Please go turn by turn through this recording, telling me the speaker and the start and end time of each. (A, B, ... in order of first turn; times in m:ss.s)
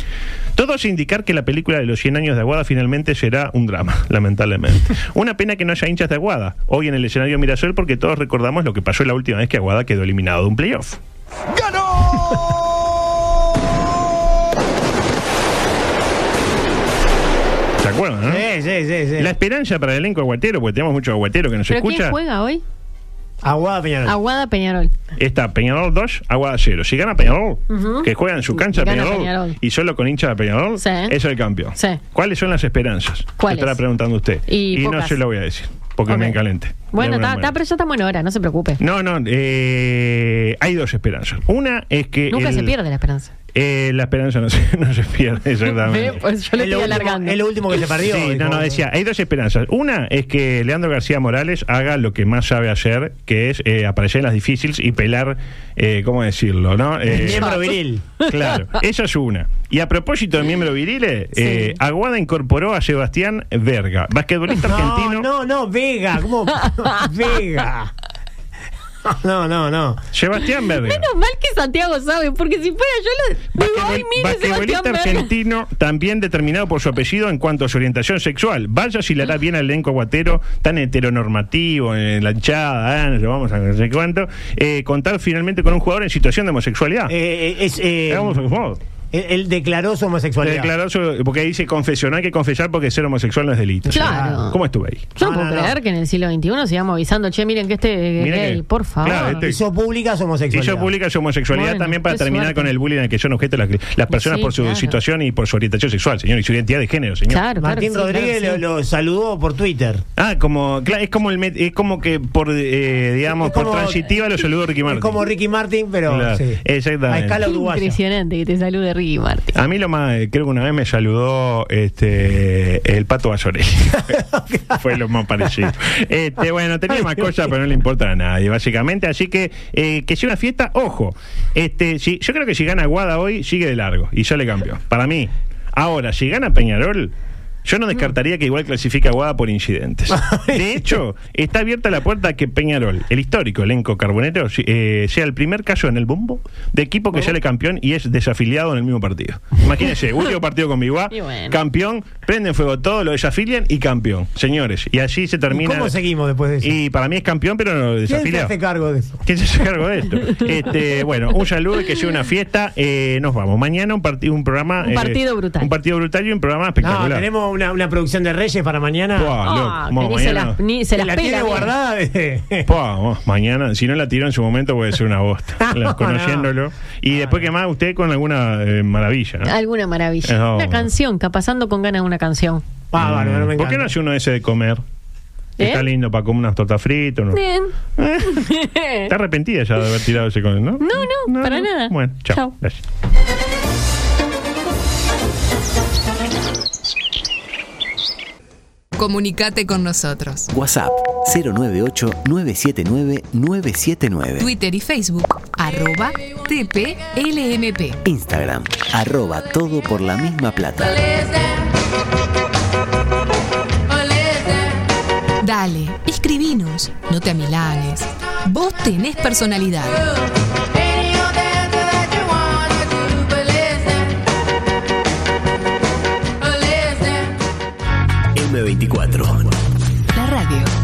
0:00.6-0:11.0 A
0:17.8-0:18.5 A
0:18.3-0:19.3 B
0:19.2-0:22.2 A
0:21.7-0:22.6 C
0:23.4-0:24.2 B
0:24.1-0:24.9 C
0:25.2-0:37.5 A
0:27.7-0:29.6 C
0:30.8-0:31.2 C
0:33.4-0:33.8 C
0:34.5-0:35.2 C
0:36.1-0:36.4 C
0:36.9-0:38.8 C
0:38.8-0:42.7 A
0:42.3-0:43.3 C
0:43.5-0:46.2 A
0:45.7-0:47.8 C
0:46.6-0:48.8 B
0:48.0-0:57.7 A
0:57.0-0:58.0 B
0:58.3-1:05.3 A
1:01.4-1:01.8 C
1:04.7-1:07.9 B
1:06.8-1:07.1 C
1:09.0-1:10.0 B
1:10.1-1:11.1 A
1:10.8-1:15.3 C
1:13.6-1:27.2 A
1:27.1-1:28.4 B
1:28.1-1:28.8 A
1:29.1-1:30.7 B
1:30.4-1:35.1 A
1:33.9-1:34.6 C
1:34.0-1:34.4 B
1:35.2-1:39.4 C
1:35.2-1:35.8 B
1:38.2-1:39.6 A
1:39.2-1:40.9 B
1:40.5-1:47.4 A
1:41.5-1:42.7 C
1:44.1-1:45.0 C
1:47.3-1:48.6 C
1:47.6-1:50.0 B
1:50.2-1:55.2 A
1:53.4-1:54.0 B
1:54.8-1:58.0 B
1:56.1-1:57.4 A
1:57.4-1:59.6 C
1:59.6-2:04.2 A
2:04.0-2:04.8 B
2:04.8-2:17.1 A
2:06.9-2:07.3 B
2:17.6-2:36.0 A
2:20.1-2:20.8 B
2:31.1-2:31.6 C
2:35.5-2:36.8 B
2:36.6-2:38.5 A
2:38.1-2:39.2 B
2:39.2-2:47.3 A
2:44.8-2:45.7 C
2:46.8-2:49.4 B
2:49.2-2:50.6 A
2:49.4-2:51.7 C
2:50.9-2:52.7 B
2:52.7-2:59.5 A
2:55.6-2:56.5 B
2:57.1-2:57.5 B
2:59.4-3:02.6 C
3:00.2-3:00.9 A
3:02.9-3:03.9 B
3:03.0-3:04.8 A
3:05.6-3:05.8 C
3:05.6-3:07.4 A
3:07.3-3:09.1 C
3:08.0-3:08.5 A
3:09.0-3:12.8 A
3:10.8-3:12.6 C
3:19.0-3:20.5 D
3:20.5-3:24.5 E
3:24.4-3:28.0 D
3:28.0-3:31.1 E
3:35.4-3:40.0 D
3:48.4-3:49.5 E
3:50.1-3:50.7 D